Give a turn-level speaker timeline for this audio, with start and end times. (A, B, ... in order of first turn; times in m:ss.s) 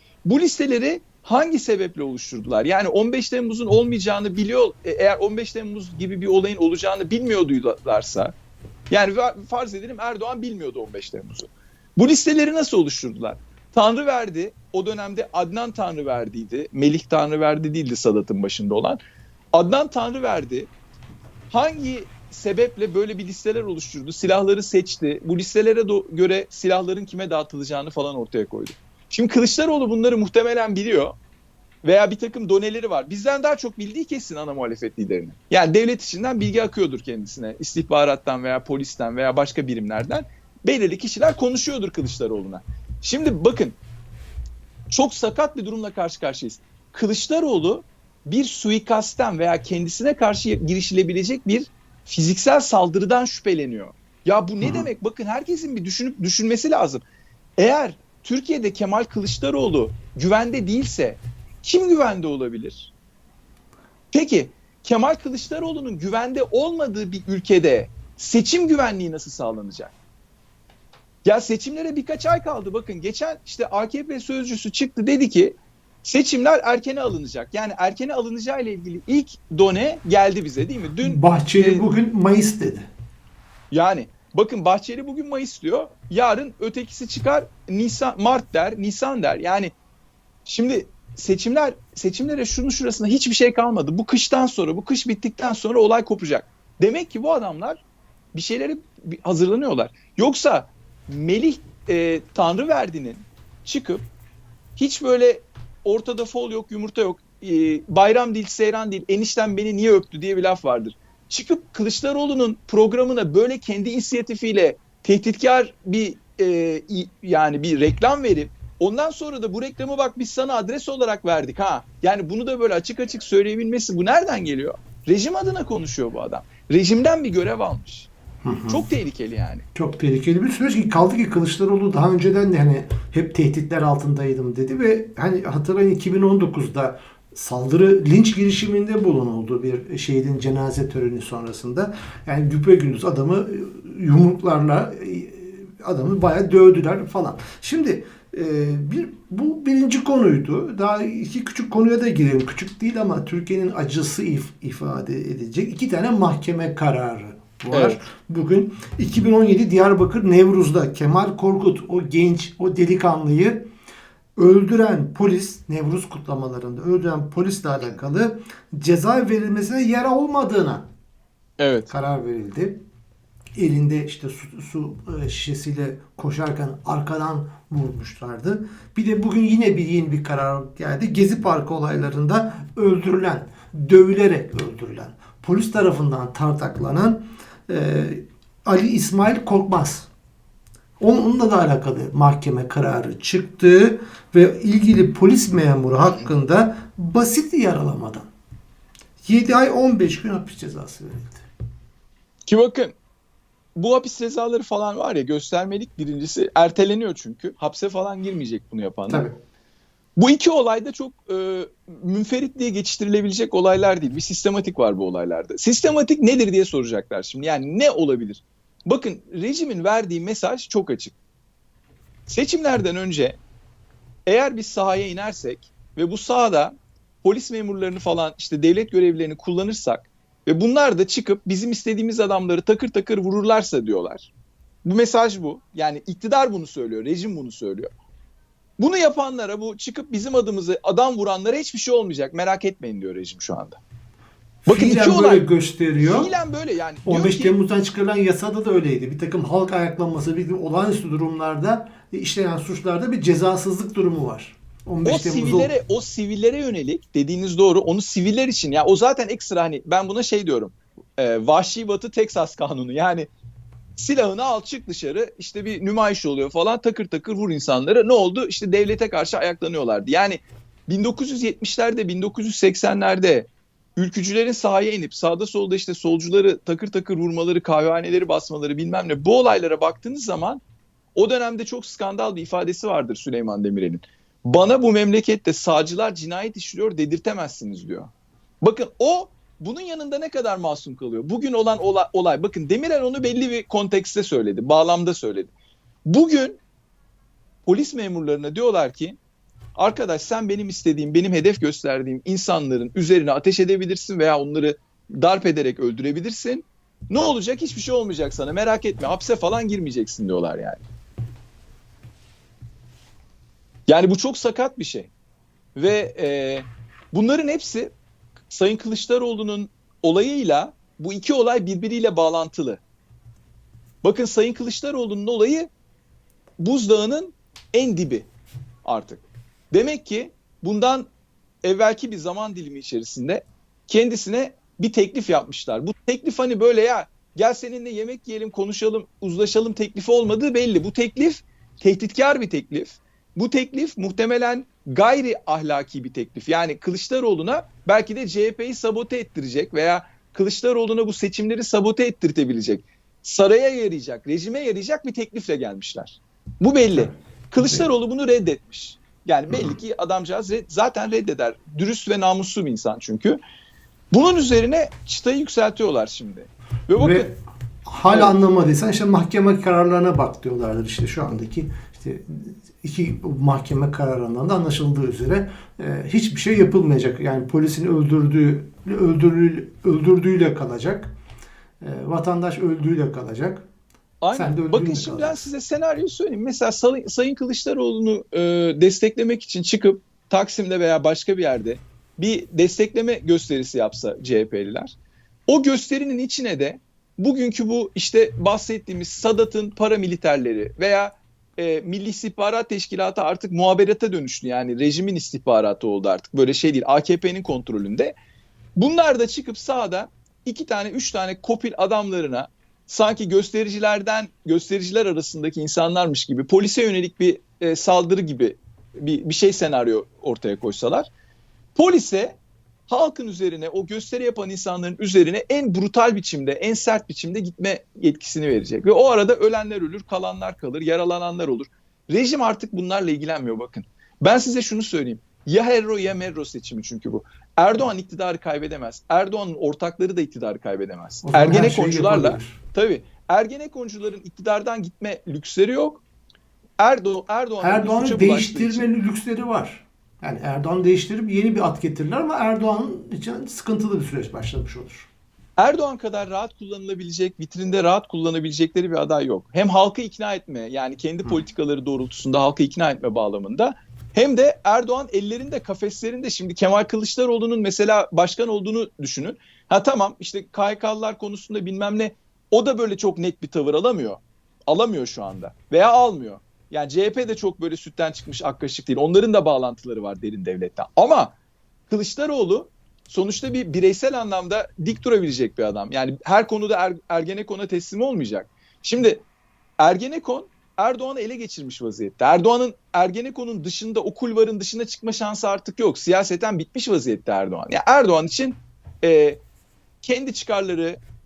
0:00.2-0:08.3 A
0:08.9-0:19.0 A
0:19.5-0:20.7 A
0:21.5-0:31.2 A
0:31.8-0:43.8 A
0:44.9-0:57.0 A
0:54.6-0:54.9 B
0:57.6-1:02.9 A
1:04.1-1:09.9 A
1:11.2-1:21.8 A
1:21.0-1:22.9 B
1:23.7-1:29.7 A
1:30.4-1:37.8 A
1:38.3-1:44.1 A
1:44.8-2:08.1 A
2:08.4-2:08.9 B
2:08.7-2:09.7 A
2:09.7-2:43.7 B
2:37.7-2:38.0 A
2:44.4-2:50.9 B
2:51.6-2:51.9 A
2:51.9-2:52.8 B
2:53.6-3:10.1 B
3:11.0-3:18.3 B
3:19.2-3:21.4 B
3:22.4-3:22.9 A
3:23.7-3:29.3 A
3:29.1-3:29.4 B
3:30.2-3:41.2 A
3:42.3-3:43.4 A
3:44.2-3:54.3 A
3:54.8-3:57.9 A
3:58.8-4:03.8 A
4:04.6-4:06.3 B
4:04.7-4:05.4 A
4:06.0-4:07.5 A
4:07.0-4:15.7 B
4:15.0-4:23.3 A
4:24.0-4:40.6 A
4:41.1-4:55.5 A
4:56.0-4:56.6 A
4:57.6-4:59.2 A
4:59.8-5:10.8 A
5:13.9-5:15.1 A
5:15.7-5:17.9 A
5:18.5-5:22.8 A
5:24.0-5:25.7 A
5:26.6-5:28.3 A
5:28.8-5:31.1 A
5:31.6-6:03.4 A
5:56.9-5:57.9 B
5:59.5-5:59.8 B
6:04.1-6:07.3 A
6:07.0-6:21.1 B
6:08.1-6:08.3 A
6:21.8-6:23.6 B
6:24.2-6:35.0 A
6:24.3-6:25.5 B
6:35.5-6:48.1 A
6:48.8-7:01.1 A
7:01.7-7:02.4 A
7:02.9-7:26.0 A
7:21.2-7:22.6 B
7:26.8-7:28.9 A
7:27.6-7:35.1 B
7:35.6-8:01.3 A
8:01.9-8:09.2 A
8:09.8-8:19.4 A
8:20.0-8:21.0 A